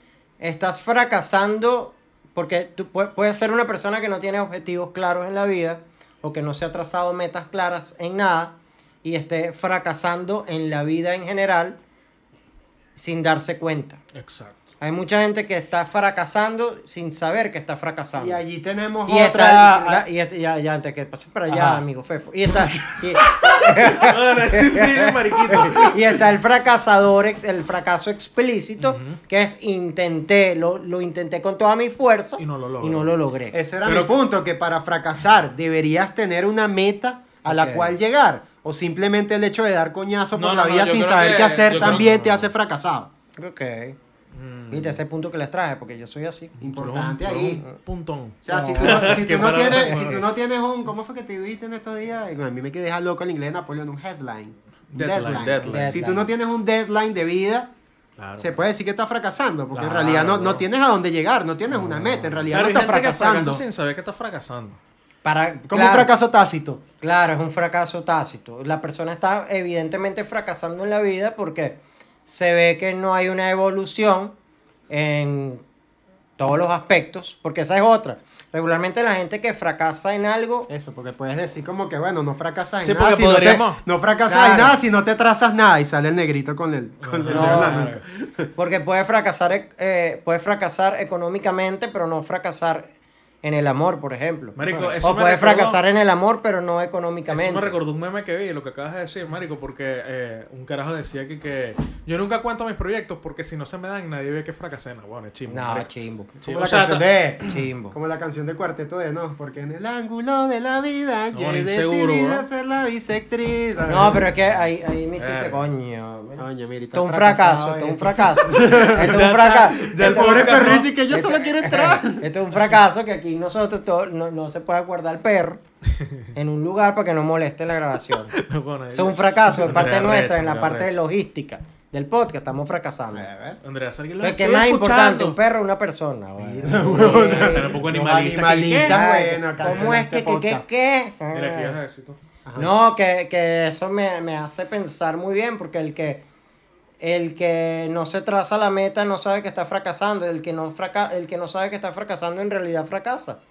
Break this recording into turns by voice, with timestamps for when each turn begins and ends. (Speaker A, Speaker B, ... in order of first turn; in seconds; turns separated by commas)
Speaker A: 0.4-11.8, Speaker A: 12.9-14.0, Speaker B: 14.1-14.6, Speaker A: 14.8-18.4, Speaker C: 18.2-20.1, Speaker A: 19.1-33.6, Speaker B: 21.5-21.8, Speaker B: 23.2-26.1, Speaker B: 28.8-29.2, Speaker B: 32.4-33.1, Speaker C: 33.5-43.1, Speaker B: 33.9-34.2, Speaker A: 37.5-38.0, Speaker B: 40.4-42.5, Speaker A: 43.4-44.0, Speaker B: 44.3-45.0, Speaker A: 44.7-46.5, Speaker B: 46.6-50.2, Speaker C: 46.6-47.6, Speaker C: 48.4-57.7, Speaker A: 48.5-49.3, Speaker B: 54.9-56.0, Speaker A: 55.7-56.3, Speaker B: 58.2-58.6, Speaker C: 58.4-63.6, Speaker B: 59.7-60.6, Speaker B: 62.1-64.8, Speaker A: 65.2-66.1, Speaker C: 65.7-66.8, Speaker A: 67.0-74.3, Speaker A: 74.9-75.6, Speaker A: 76.4-80.7, Speaker C: 80.7-88.5, Speaker B: 82.8-83.8, Speaker A: 84.3-84.8, Speaker B: 87.0-88.0, Speaker A: 87.3-87.9, Speaker A: 88.6-92.9, Speaker A: 93.4-97.7, Speaker B: 94.6-95.8, Speaker C: 94.7-95.0, Speaker B: 97.3-105.9, Speaker A: 105.5-106.3, Speaker B: 106.4-107.0, Speaker C: 106.5-114.3, Speaker A: 107.5-108.0, Speaker B: 111.3-112.5, Speaker A: 113.9-125.6, Speaker B: 115.2-115.7, Speaker C: 116.4-122.3, Speaker B: 118.5-120.9, Speaker B: 126.0-126.3, Speaker A: 126.3-128.4, Speaker B: 128.1-130.9, Speaker A: 128.9-133.3, Speaker C: 133.1-133.6, Speaker B: 133.6-135.4, Speaker A: 134.2-137.8, Speaker C: 136.4-140.6, Speaker B: 136.7-139.0, Speaker A: 138.8-141.8, Speaker B: 141.3-142.2, Speaker C: 142.5-142.8, Speaker A: 142.6-146.2, Speaker A: 147.0-153.4